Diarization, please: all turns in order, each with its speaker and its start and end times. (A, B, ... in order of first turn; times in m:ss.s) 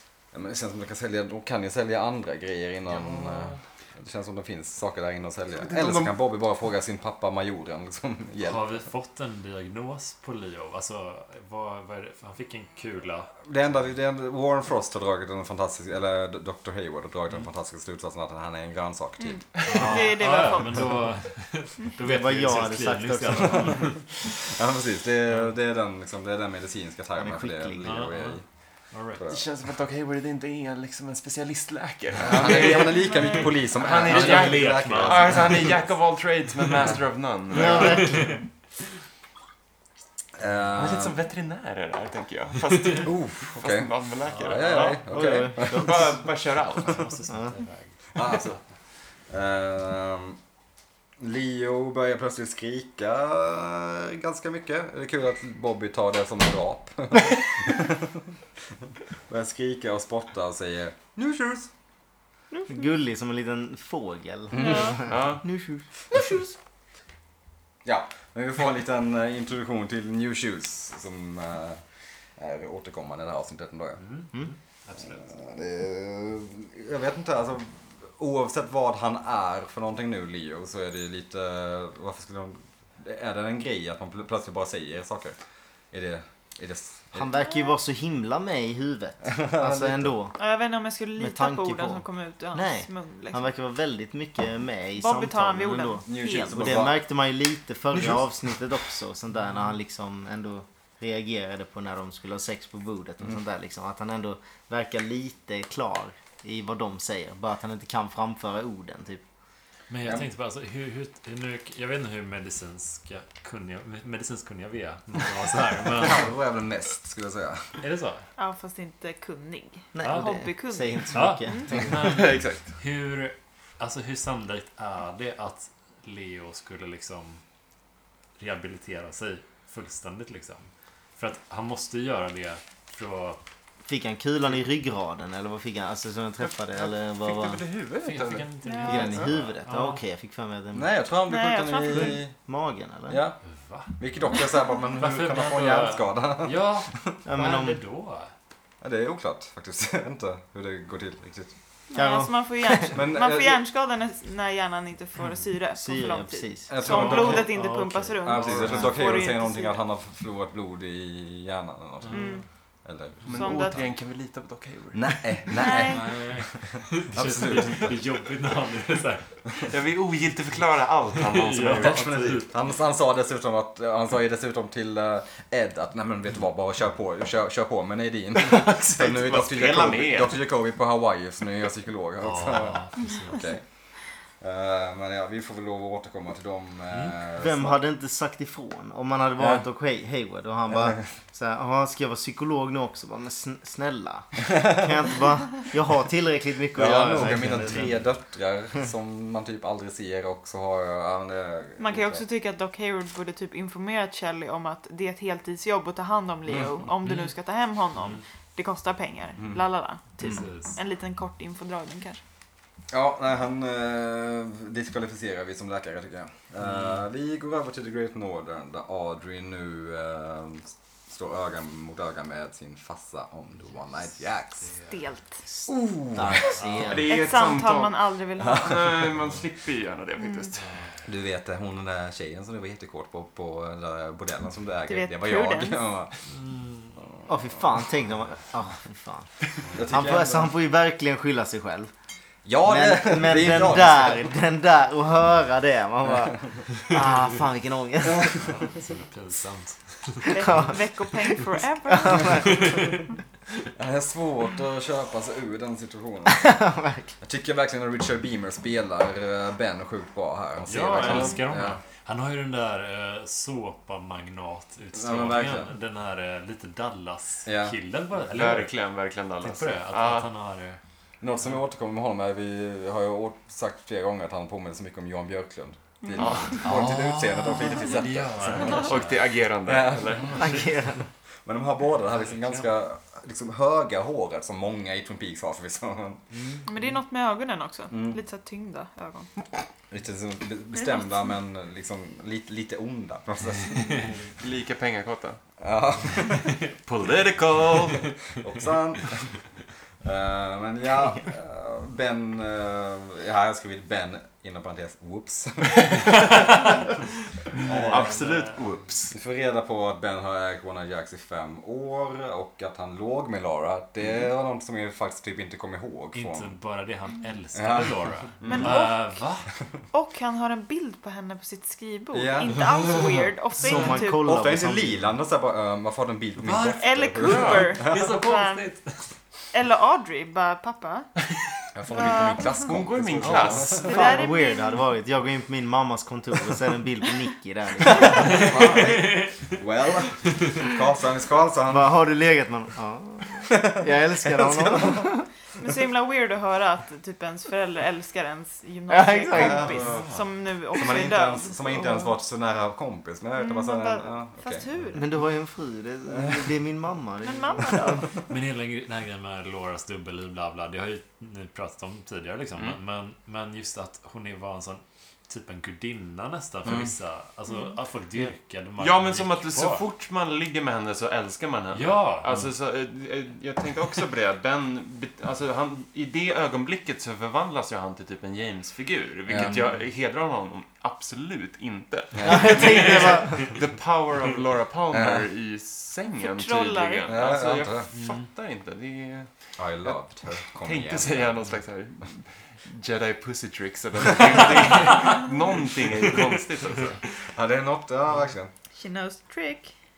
0:00.3-0:08.6 A
0:02.9-0:03.6 B
0:05.6-0:06.1 C
0:08.4-0:13.4 B
0:13.4-0:20.0 A
0:19.2-0:20.8 D
0:19.6-0:20.0 C
0:19.6-0:24.2 B
0:22.0-0:23.9 E
0:23.7-0:28.4 A
0:27.2-0:27.9 E
0:27.8-0:28.4 B
0:28.9-0:29.2 B
0:29.2-0:29.4 A
0:29.3-0:33.1 C
0:32.2-0:35.8 A
0:32.9-0:33.6 D
0:33.7-0:38.1 C
0:33.8-0:35.8 B
0:37.5-0:38.4 E
0:37.6-0:38.3 B
0:40.4-0:41.2 A
0:40.8-0:47.1 C
0:43.0-0:45.9 A
0:44.2-0:45.0 B
0:45.1-0:46.1 E
0:46.8-0:47.9 B
0:48.1-0:48.6 A
0:49.3-0:50.4 A
0:51.2-0:58.2 A
0:59.3-1:01.7 A
1:02.5-1:02.9 D
1:02.7-1:06.4 E
1:04.5-1:05.0 A
1:04.6-1:05.1 D
1:05.0-1:05.4 C
1:07.8-1:11.8 A
1:12.4-1:14.0 A
1:14.0-1:15.2 B
1:15.1-1:25.4 A
1:25.9-1:27.3 A
1:27.1-1:30.4 E
1:29.2-1:30.1 A
1:30.4-1:33.5 D
1:31.2-1:49.2 E
1:35.0-1:36.7 D
1:36.0-1:37.0 A
1:49.9-1:56.3 B
1:55.9-1:57.8 A
1:57.8-1:58.2 B
1:58.4-2:01.8 D
1:59.9-2:02.0 E
2:00.0-2:00.3 B
2:01.1-2:07.4 B
2:02.0-2:02.7 C
2:08.4-2:13.4 B
2:13.8-2:17.6 E
2:16.4-2:19.3 C
2:18.0-2:20.0 B
2:18.6-2:19.0 D
2:18.8-2:20.9 E
2:20.7-2:22.3 A
2:21.3-2:22.2 D
2:22.4-2:23.2 E
2:23.1-2:23.4 A
2:23.6-2:24.0 B
2:24.0-2:27.1 A
2:25.0-2:28.3 B
2:27.2-2:27.8 E
2:28.8-2:31.6 A
2:31.9-2:39.8 D
2:31.9-2:32.9 E
2:32.9-2:33.6 A
2:35.8-2:36.7 E
2:36.7-2:37.5 A
2:36.8-2:39.0 B
2:38.2-2:43.8 A
2:42.0-2:42.4 B
2:42.1-2:42.4 D
2:43.3-2:45.5 C
2:43.3-2:43.8 D
2:44.9-2:48.0 A
2:45.6-2:46.1 D
2:45.7-2:49.5 B
2:49.7-2:52.0 C
2:51.2-2:52.5 B
2:51.8-3:03.6 A
2:58.4-3:00.3 C
3:02.2-3:03.4 B
3:04.4-3:07.8 A
3:07.4-3:18.0 E
3:16.7-3:22.2 A
3:21.8-3:32.2 D
3:27.0-3:27.3 B
3:28.0-3:28.2 B
3:30.2-3:30.8 B
3:32.9-3:44.7 A
3:36.6-3:37.0 B
3:44.6-3:44.9 B
3:44.9-3:45.4 D
3:45.6-3:47.0 E
3:45.7-3:46.9 A
3:46.6-3:47.3 B
3:46.9-3:50.7 C
3:47.1-3:48.7 D
3:48.6-3:49.0 A
3:50.6-3:51.0 B
3:51.0-3:56.1 A
3:54.9-3:55.8 D
3:56.3-3:57.0 B
3:57.3-4:01.9 E
3:59.6-3:59.9 B
3:59.7-4:00.5 A
4:02.4-4:04.3 A
4:02.6-4:08.6 E
4:08.1-4:08.9 A
4:08.5-4:10.4 B
4:10.3-4:12.6 D
4:10.4-4:12.8 E
4:12.3-4:13.0 B
4:13.8-4:16.6 A
4:16.2-4:17.1 E
4:17.2-4:21.8 A
4:20.6-4:28.7 B
4:21.0-4:21.3 C
4:24.9-4:25.7 A
4:27.4-4:27.7 A
4:28.3-4:30.3 C
4:29.4-4:30.8 B
4:31.2-4:40.6 A
4:36.0-4:36.4 D
4:36.2-4:36.6 C
4:36.6-4:39.2 B
4:38.6-4:40.6 C
4:40.2-4:40.6 B
4:40.3-4:41.0 E
4:41.4-4:46.2 A
4:42.3-4:42.6 B
4:46.3-4:46.9 B
4:46.6-4:49.3 D
4:47.9-4:48.2 A
4:49.9-4:54.1 A
4:54.4-4:55.4 C
4:55.6-4:56.5 A
4:56.7-4:58.1 C
4:58.4-4:59.3 A
5:00.0-5:06.5 A
5:06.1-5:06.5 C
5:07.6-5:08.2 A
5:07.6-5:09.1 C
5:07.6-5:08.7 B
5:09.1-5:16.5 A
5:16.1-5:19.5 B
5:17.5-5:18.7 A
5:18.4-5:19.1 D
5:19.9-5:24.3 D
5:22.1-5:23.3 A
5:23.7-5:25.0 E
5:24.1-5:28.0 A
5:26.4-5:29.1 B
5:26.8-5:28.7 D
5:27.2-5:27.7 C
5:29.5-5:31.1 D
5:31.7-5:33.9 A
5:31.9-5:32.7 D
5:32.6-5:34.0 C
5:33.7-5:34.8 D
5:33.9-5:38.4 E
5:37.8-5:41.9 A
5:38.2-5:39.5 B
5:41.7-5:45.3 E
5:43.5-5:45.1 A
5:45.6-5:52.1 D
5:48.9-5:49.7 E
5:49.4-5:50.0 A
5:49.5-5:50.2 C
5:50.8-5:54.7 A
5:50.8-5:51.1 C
5:53.4-5:55.1 D
5:54.9-5:58.0 E
5:57.2-5:58.1 D
5:58.3-6:09.8 B
6:06.6-6:06.9 A
6:07.5-6:07.7 D
6:08.8-6:29.4 C
6:11.7-6:12.5 B
6:19.3-6:19.6 A
6:19.3-6:19.8 B
6:22.1-6:22.7 A
6:22.2-6:23.5 E
6:23.2-6:23.5 B
6:24.9-6:25.3 A
6:26.2-6:27.3 D
6:27.0-6:27.9 A
6:27.9-6:28.3 B
6:29.6-6:31.3 A
6:30.6-6:37.0 C
6:34.1-6:34.3 A
6:37.3-6:38.5 A
6:38.8-6:39.7 D